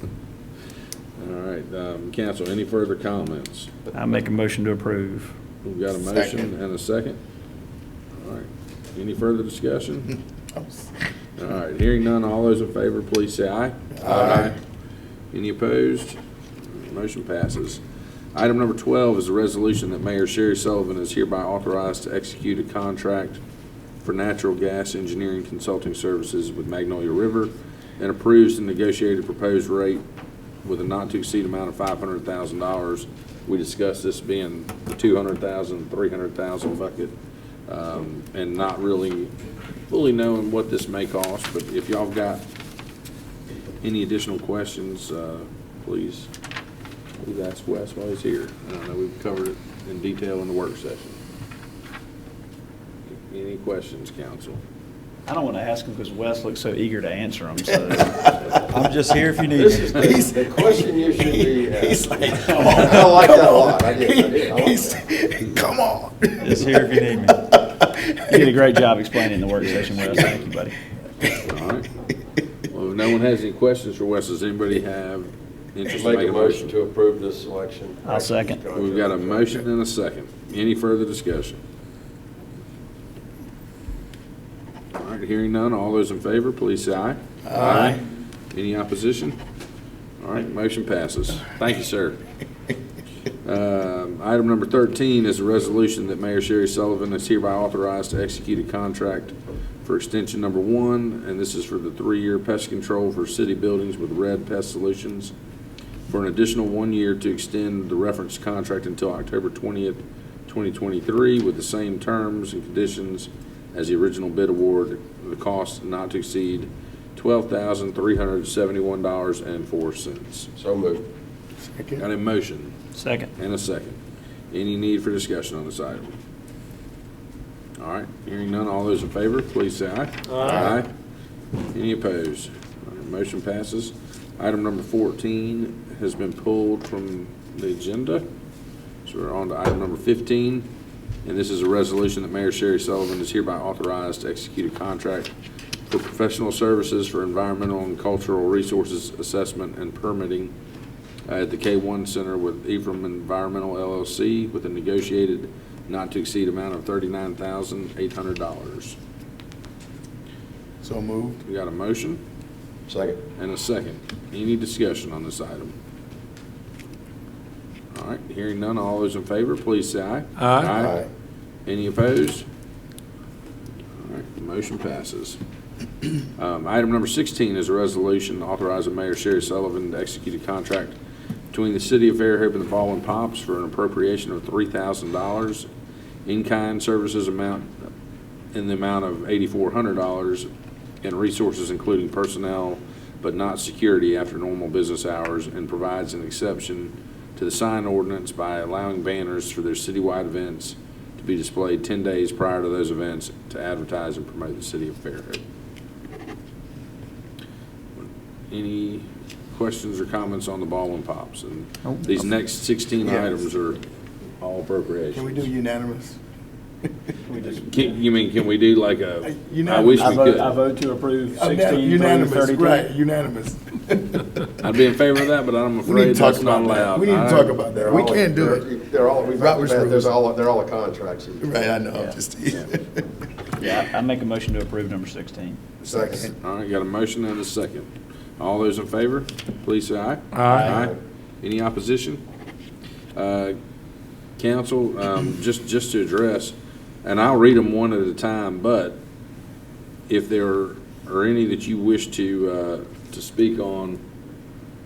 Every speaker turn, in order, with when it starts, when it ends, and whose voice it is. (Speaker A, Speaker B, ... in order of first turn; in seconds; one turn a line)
Speaker A: 1.2-3.8
Speaker B: 3.9-5.3
Speaker A: 5.6-7.2
Speaker C: 6.0-6.5
Speaker A: 8.2-10.1
Speaker C: 10.5-10.9
Speaker A: 11.4-14.6
Speaker C: 13.9-14.5
Speaker A: 15.3-16.2
Speaker A: 16.7-17.8
Speaker A: 18.3-23.4
Speaker A: 24.0-30.0
Speaker A: 30.6-37.1
Speaker A: 37.7-39.3
Speaker A: 39.9-42.5
Speaker A: 43.8-46.3
Speaker A: 47.2-51.2
Speaker A: 53.2-54.6
Speaker B: 55.3-60.1
Speaker D: 59.5-65.0
Speaker C: 59.9-68.5
Speaker B: 62.5-63.0
Speaker B: 66.4-67.5
Speaker B: 68.3-70.8
Speaker A: 71.4-71.9
Speaker A: 72.7-76.8
Speaker D: 75.9-79.5
Speaker B: 78.0-78.6
Speaker A: 78.7-81.6
Speaker A: 84.9-89.4
Speaker C: 87.5-88.0
Speaker B: 87.6-88.0
Speaker A: 90.2-92.2
Speaker A: 93.4-105.3
Speaker A: 106.1-120.5
Speaker D: 120.5-121.0
Speaker C: 121.6-122.0
Speaker A: 122.0-122.7
Speaker B: 122.9-123.3
Speaker A: 123.3-124.0
Speaker A: 124.5-126.1
Speaker A: 127.8-130.9
Speaker D: 130.4-130.8
Speaker A: 131.7-138.2
Speaker A: 139.0-140.7
Speaker A: 141.2-145.3
Speaker A: 145.9-150.5
Speaker A: 151.3-159.0
Speaker C: 160.8-161.4
Speaker A: 161.4-162.2
Speaker D: 162.9-163.2
Speaker A: 163.3-165.8
Speaker A: 167.9-171.0
Speaker C: 170.4-171.0
Speaker A: 171.7-172.4
Speaker A: 174.0-175.4
Speaker A: 176.4-180.9
Speaker A: 181.5-185.7
Speaker A: 186.2-187.9
Speaker A: 188.5-190.5
Speaker A: 191.0-205.4
Speaker A: 207.9-213.8
Speaker C: 213.0-213.4
Speaker A: 214.4-215.5
Speaker C: 215.1-216.2
Speaker B: 217.3-217.9
Speaker A: 217.7-220.6
Speaker C: 219.2-220.4
Speaker B: 219.9-222.9
Speaker C: 221.3-224.6
Speaker A: 224.6-227.6
Speaker C: 225.8-228.7
Speaker D: 227.8-231.6
Speaker C: 229.4-230.1
Speaker C: 231.4-233.1
Speaker B: 233.6-235.6
Speaker D: 235.8-236.3
Speaker C: 235.8-236.3
Speaker A: 236.4-242.2
Speaker C: 240.3-240.7
Speaker D: 240.5-240.9
Speaker A: 243.1-243.5
Speaker A: 244.4-249.0
Speaker A: 250.1-254.0